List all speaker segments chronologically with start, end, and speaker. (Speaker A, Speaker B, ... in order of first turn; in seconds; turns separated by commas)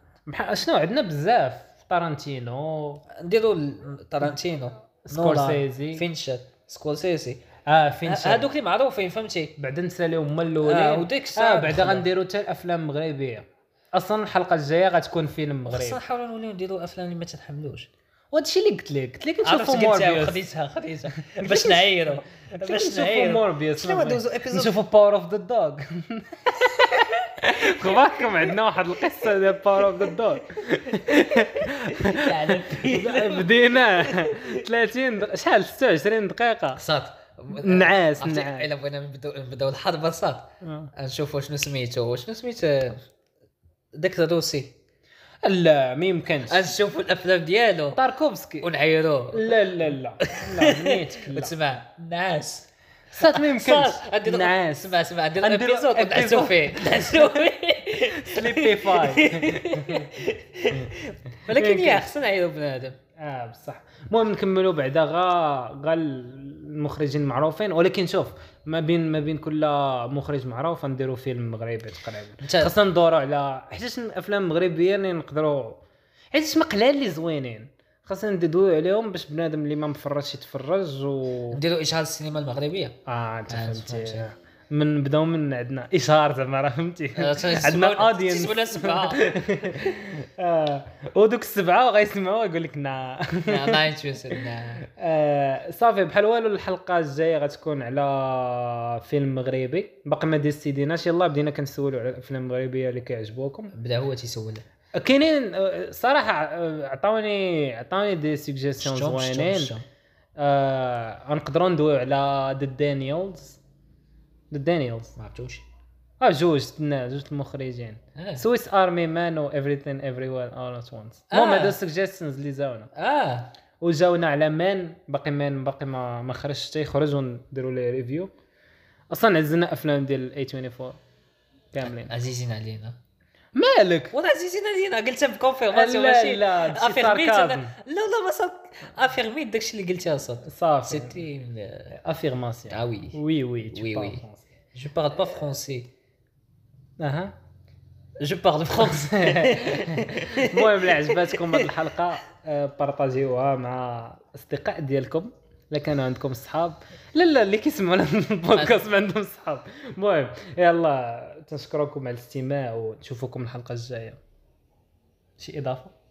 Speaker A: 0.3-3.0, Speaker B: 3.1-7.4, Speaker A: 5.1-6.0, Speaker A: 7.7-8.5, Speaker B: 8.1-9.6, Speaker A: 9.6-16.0, Speaker B: 10.6-12.1, Speaker B: 15.7-17.9, Speaker A: 18.3-20.4, Speaker B: 19.4-24.8, Speaker A: 21.2-36.8, Speaker B: 27.6-28.5, Speaker B: 30.9-34.6, Speaker B: 36.8-43.0, Speaker A: 37.5-38.7, Speaker A: 40.6-40.9, Speaker B: 44.0-44.8, Speaker A: 45.4-46.7, Speaker B: 46.5-48.0, Speaker A: 48.0-48.7, Speaker B: 48.6-49.6, Speaker A: 49.3-51.6, Speaker B: 50.2-63.0, Speaker A: 53.1-57.5, Speaker A: 58.0-60.1, Speaker A: 61.5-62.1, Speaker A: 63.2-81.6, Speaker B: 72.4-72.7, Speaker B: 81.5-83.0, Speaker A: 83.1-103.7, Speaker B: 83.5-84.2, Speaker B: 87.2-89.3, Speaker B: 93.5-94.8, Speaker B: 103.7-104.7, Speaker A: 105.0-109.7, Speaker B: 108.8-109.8, Speaker A: 110.4-113.6, Speaker A: 114.5-115.2, Speaker B: 115.2-115.7, Speaker A: 116.2-122.9, Speaker B: 118.2-118.4, Speaker B: 121.3-121.8, Speaker B: 123.0-123.5, Speaker A: 123.8-128.3, Speaker A: 129.1-131.0, Speaker A: 131.7-132.1, Speaker B: 131.9-133.0, Speaker A: 133.6-134.1, Speaker B: 134.1-141.9, Speaker A: 135.7-137.7, Speaker A: 140.4-141.2, Speaker A: 141.9-144.5, Speaker B: 142.7-143.2, Speaker B: 143.7-144.2, Speaker B: 144.7-145.9, Speaker A: 147.0-147.3, Speaker B: 148.2-151.7, Speaker A: 148.8-164.2, Speaker A: 165.4-165.9